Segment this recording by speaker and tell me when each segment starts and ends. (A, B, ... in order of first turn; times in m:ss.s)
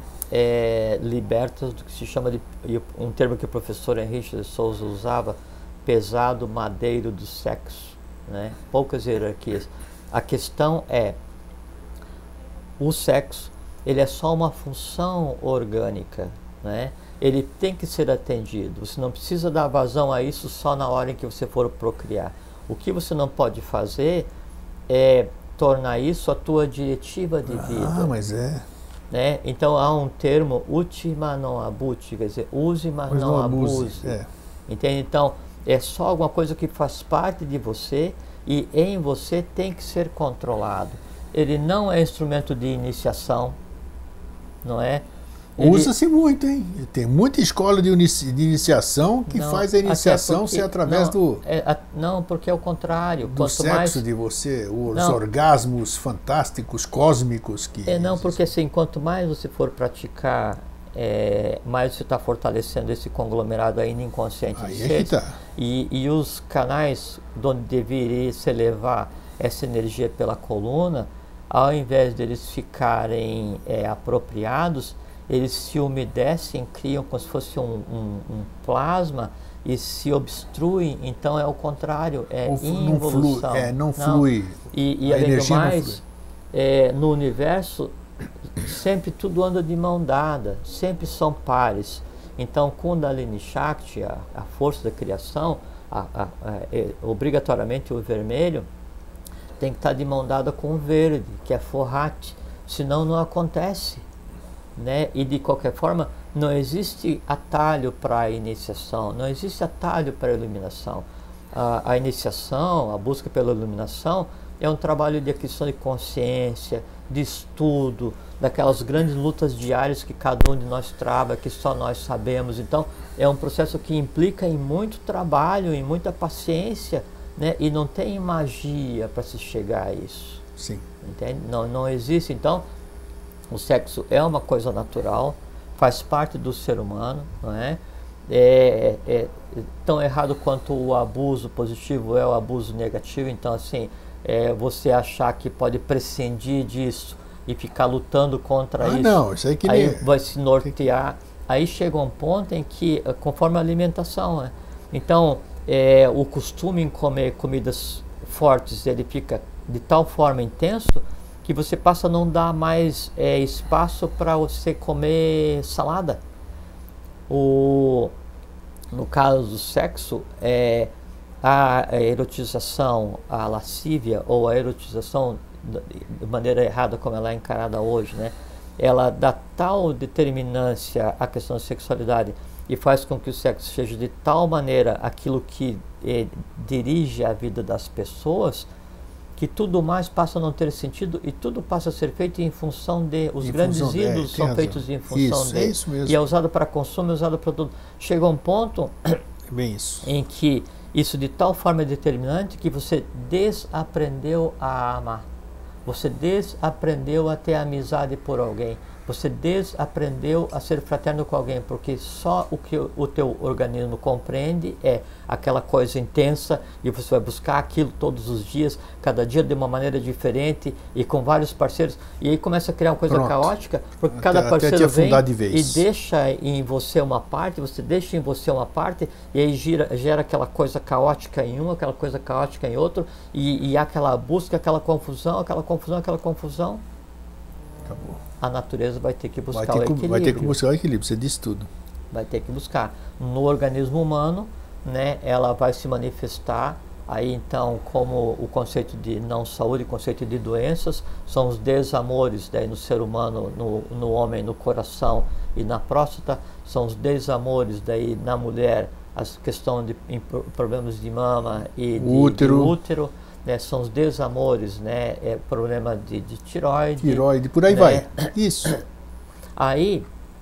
0:00.3-0:11.2 A
0:12.8-0:24.3 A
0:24.9-0:28.1 A
0:27.5-0:28.7 B
0:29.1-0:34.1 A
0:33.1-0:34.3 B
0:34.7-0:43.6 A
0:44.6-0:45.1 A
0:45.6-0:45.9 A
0:45.6-0:51.4 B
0:49.3-0:54.0 A
0:53.2-0:58.4 B
0:54.9-0:55.2 A
0:57.9-1:26.0 A
1:04.6-1:05.4 B
1:22.5-1:26.0 B
1:26.5-1:27.9 A
1:28.6-1:38.7 A
1:39.6-1:44.0 A
1:44.8-2:10.4 A
2:10.6-2:10.8 B
2:11.0-2:12.6 A
2:13.5-2:46.2 A
2:28.8-2:30.1 B
2:47.3-2:48.2 A
2:48.9-2:50.9 A
2:51.4-3:08.7 A
3:09.4-3:19.2 A
3:13.4-3:16.2 B
3:19.5-3:20.1 B
3:20.0-3:25.3 A
3:25.9-3:56.8 A
3:43.1-3:43.5 B
3:44.1-3:45.8 B
3:57.9-3:58.2 B
3:58.4-4:00.6 A
3:59.5-4:01.7 B
4:02.1-4:28.3 A
4:22.0-4:22.8 B
4:27.0-4:28.7 B
4:29.6-4:30.0 A